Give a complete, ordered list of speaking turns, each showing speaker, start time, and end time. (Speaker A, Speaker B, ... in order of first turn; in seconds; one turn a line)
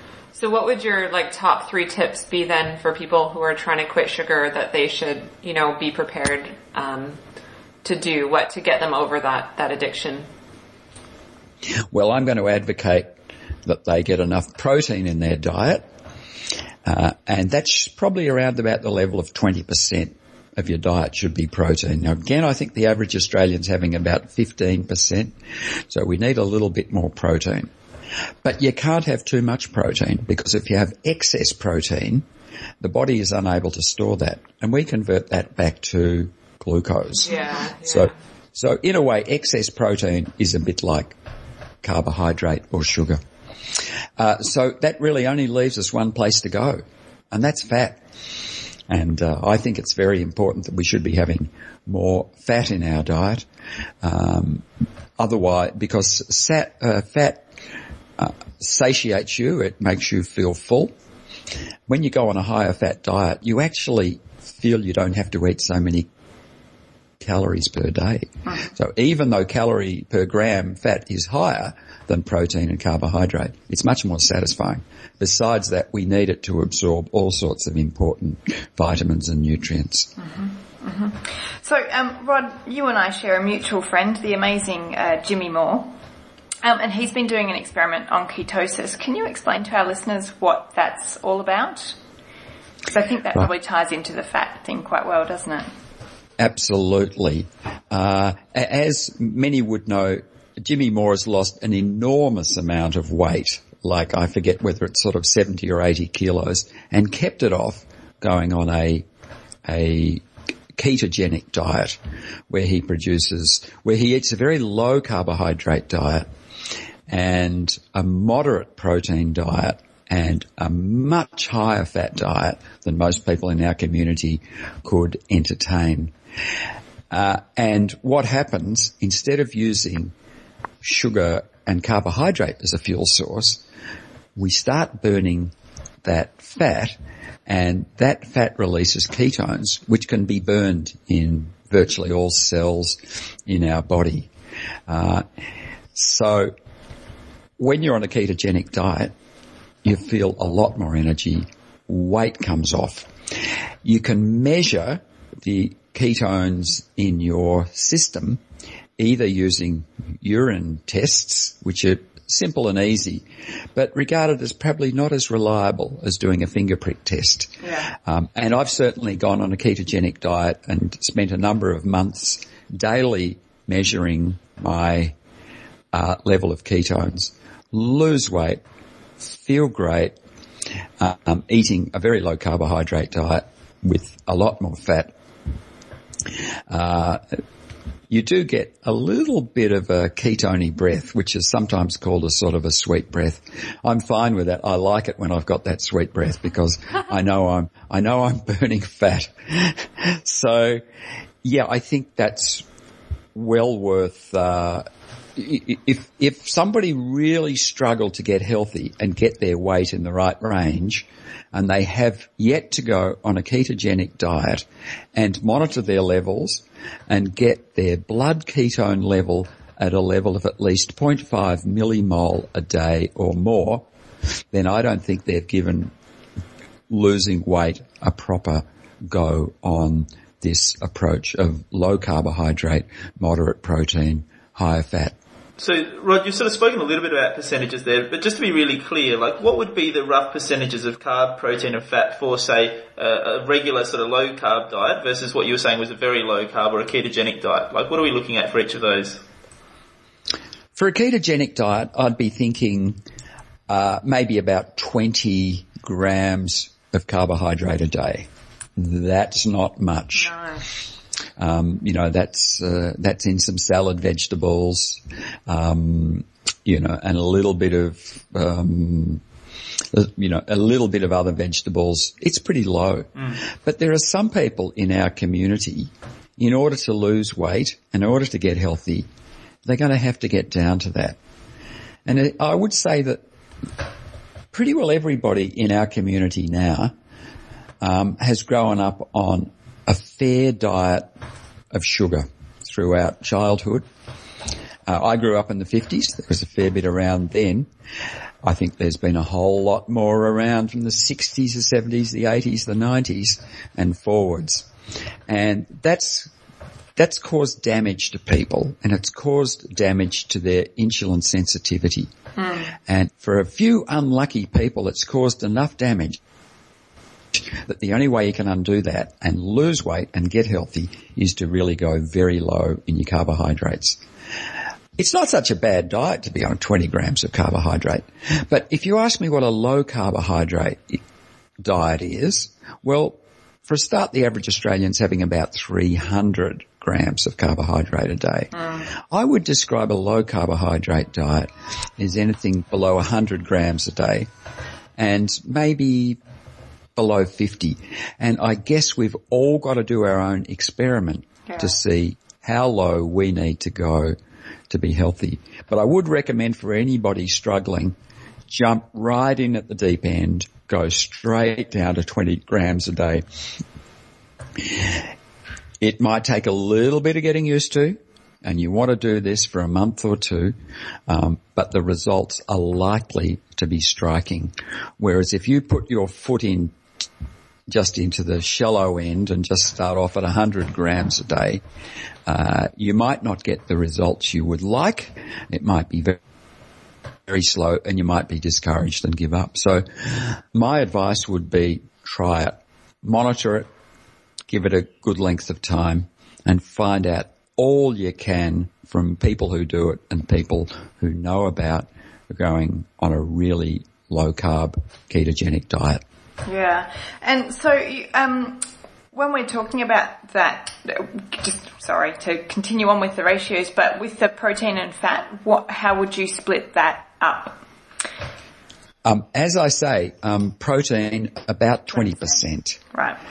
Speaker A: 0.3-7.2
Speaker A: 7.8-10.3
Speaker B: 11.9-13.1
Speaker B: 13.6-15.9
Speaker B: 16.8-25.3
Speaker B: 25.9-27.7
Speaker B: 28.4-32.2
Speaker B: 32.8-41.2
Speaker A: 37.2-38.1
Speaker B: 41.8-43.2
Speaker B: 44.2-48.0
Speaker B: 48.9-53.5
Speaker B: 54.0-54.6
Speaker B: 55.2-57.5
Speaker B: 58.2-60.9
Speaker B: 61.9-66.1
Speaker B: 67.2-80.1
Speaker C: 80.2-85.9
Speaker C: 86.6-92.0
Speaker C: 92.9-95.7
Speaker B: 96.4-109.1
Speaker B: 109.6-110.2
Speaker B: 110.8-116.3
Speaker B: 117.1-126.1
Speaker B: 127.1-130.1
Speaker B: 130.8-133.6
Speaker B: 134.3-144.3
Speaker B: 144.9-145.2
Speaker B: 145.9-146.5
Speaker B: 147.6-149.1
Speaker B: 149.8-153.1
Speaker B: 153.8-158.4
Speaker B: 159.0-163.2
Speaker B: 163.8-175.1
Speaker C: 167.6-167.9
Speaker B: 175.9-178.6
Speaker B: 179.3-180.2
Speaker B: 181.0-185.1
Speaker B: 186.7-187.3
Speaker B: 188.1-200.8
Speaker B: 201.4-202.6
Speaker B: 203.3-223.8
Speaker B: 224.5-225.9
Speaker B: 226.9-235.2
Speaker D: 235.6-249.2
Speaker B: 250.7-253.0
Speaker B: 253.7-260.3
Speaker C: 260.2-260.6
Speaker B: 261.4-269.2
Speaker B: 269.9-279.1
Speaker B: 279.6-281.2
Speaker B: 282.1-283.2
Speaker B: 284.5-286.9
Speaker B: 287.8-291.1
Speaker B: 291.7-293.8
Speaker B: 294.9-297.7
Speaker B: 298.4-304.7
Speaker B: 305.3-306.3
Speaker B: 306.9-312.1
Speaker C: 312.4-312.7
Speaker B: 312.9-316.2
Speaker B: 317.4-324.0
Speaker B: 324.9-331.0
Speaker B: 331.6-344.3
Speaker B: 345.0-346.2
Speaker B: 346.9-354.1
Speaker B: 354.7-357.9
Speaker B: 358.5-363.2
Speaker B: 364.6-365.0
Speaker B: 365.8-370.6
Speaker B: 371.1-376.8
Speaker B: 377.7-381.6
Speaker B: 382.3-386.2
Speaker B: 387.3-393.7
Speaker B: 394.5-406.0
Speaker C: 406.4-417.6
Speaker B: 419.0-422.8